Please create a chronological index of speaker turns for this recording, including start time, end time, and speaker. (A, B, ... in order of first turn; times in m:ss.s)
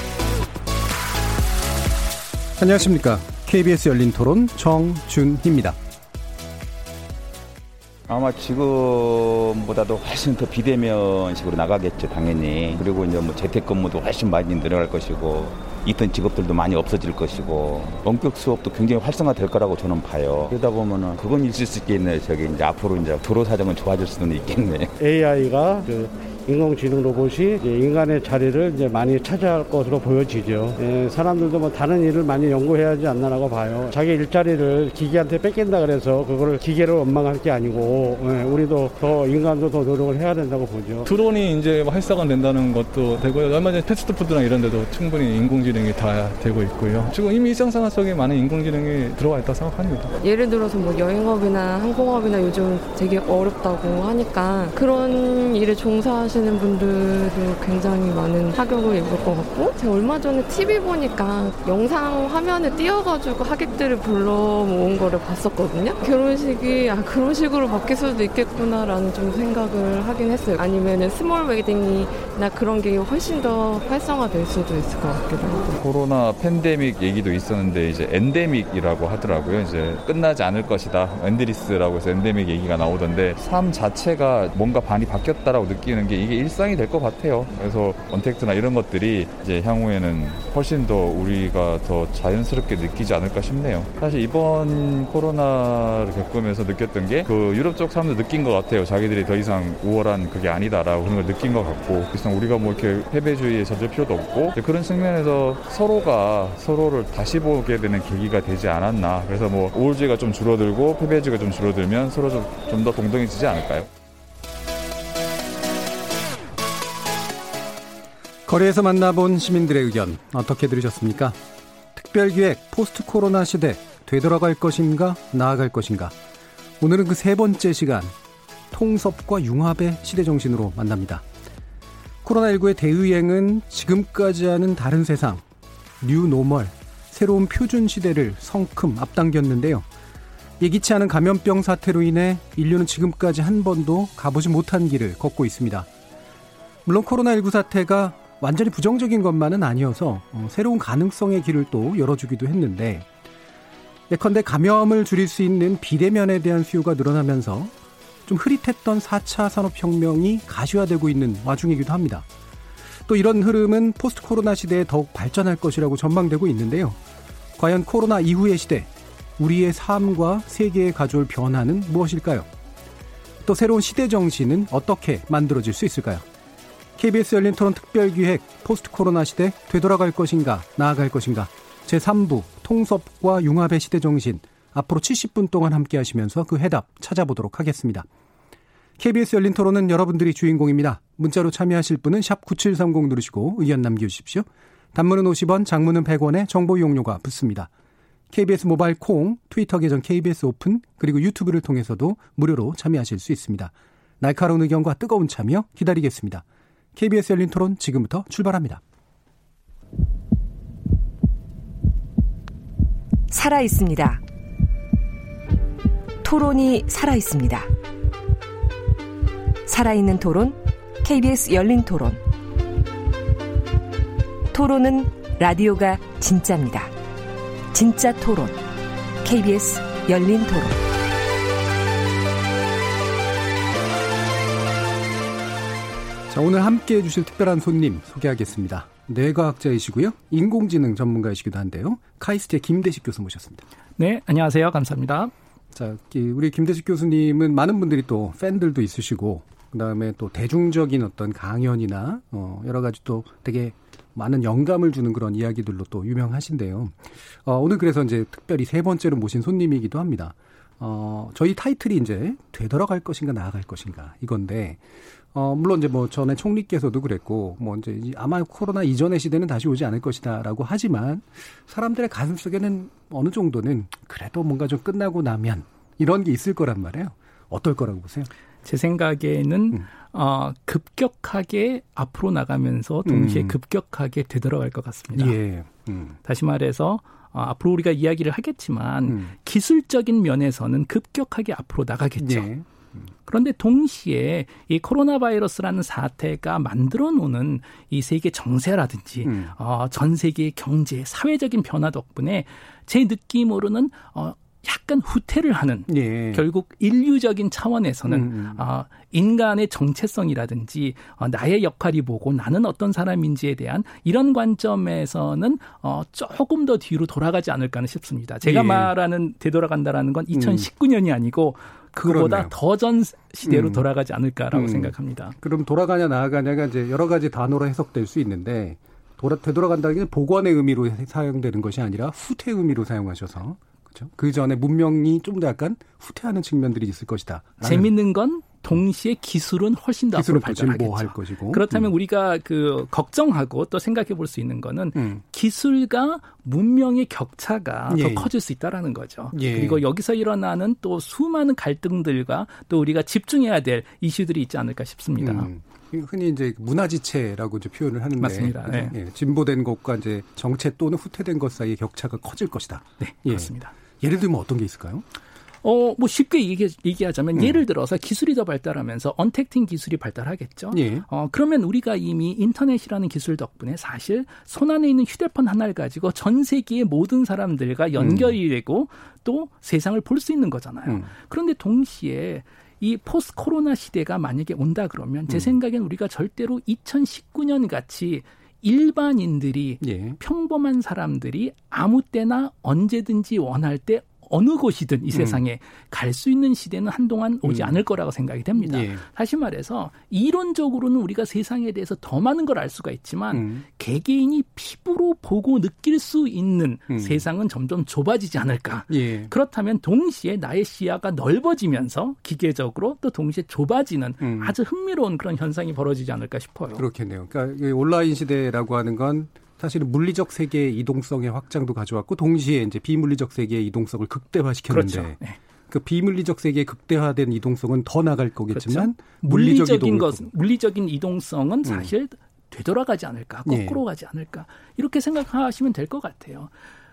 0:02.6-0:05.8 A
0:08.1-0:24.9 B
0:25.0-0:41.1 C
0:41.0-0:50.2 D
0:50.2-1:15.8 E
1:15.8-1:53.9 F
1:58.4-2:01.4 A
2:01.9-2:06.1 A
2:06.8-2:08.1 A
2:08.7-2:11.2 A
2:12.2-2:15.4 A
2:16.0-2:19.8 A
2:20.6-2:25.9 A
2:26.8-2:33.1 A
2:34.1-2:37.7 A
2:38.3-2:42.2 A
2:43.1-2:47.0 A
2:47.6-2:52.5 A
2:53.4-2:56.2 A
2:57.0-3:08.1 A
3:09.0-3:17.7 A
3:18.3-3:26.4 A
3:26.9-3:28.8 A
3:33.3-3:34.2 G
3:36.2-3:37.7 G
3:39.7-3:42.2 G
3:44.5-3:46.9 G
3:47.7-3:48.6 G
3:49.2-3:50.8 G
3:56.3-4:03.6 A
4:04.0-4:05.3 H
4:05.7-4:24.8 A
4:25.3-4:38.3 A
4:38.6-4:45.4 H
4:43.1-4:43.6 A
4:45.1-4:46.2 A
4:46.2-4:52.5 H
4:49.1-4:49.3 A
4:52.2-4:53.1 A
4:53.2-5:25.4 H
4:59.2-4:59.5 A
5:05.9-5:06.4 A
5:08.1-5:08.6 A
5:18.4-5:18.9 A
5:20.3-5:20.7 A
5:22.0-5:22.5 A
5:23.4-5:23.9 A
5:24.5-5:37.9 A
5:37.6-5:55.5 H
5:40.1-5:41.9 A
5:45.0-5:45.2 A
5:47.9-5:48.3 A
5:49.3-5:49.8 A
5:55.2-6:05.0 A
5:58.2-5:58.9 H
6:03.0-6:03.7 H
6:05.6-6:56.8 H
6:07.3-6:07.6 A
6:10.7-6:11.1 A
6:18.0-6:18.4 A
6:25.3-6:25.6 A
6:29.8-6:30.2 A
6:35.1-6:35.4 A
6:37.4-6:37.8 A
6:38.6-6:39.0 A
6:43.3-6:43.6 A
6:46.9-6:47.2 A
6:48.9-6:49.3 A
6:54.2-6:54.6 A
6:56.7-7:05.2 A
7:04.7-7:05.4 H
7:05.7-7:10.3 A
7:08.5-7:16.5 H
7:13.4-7:13.8 A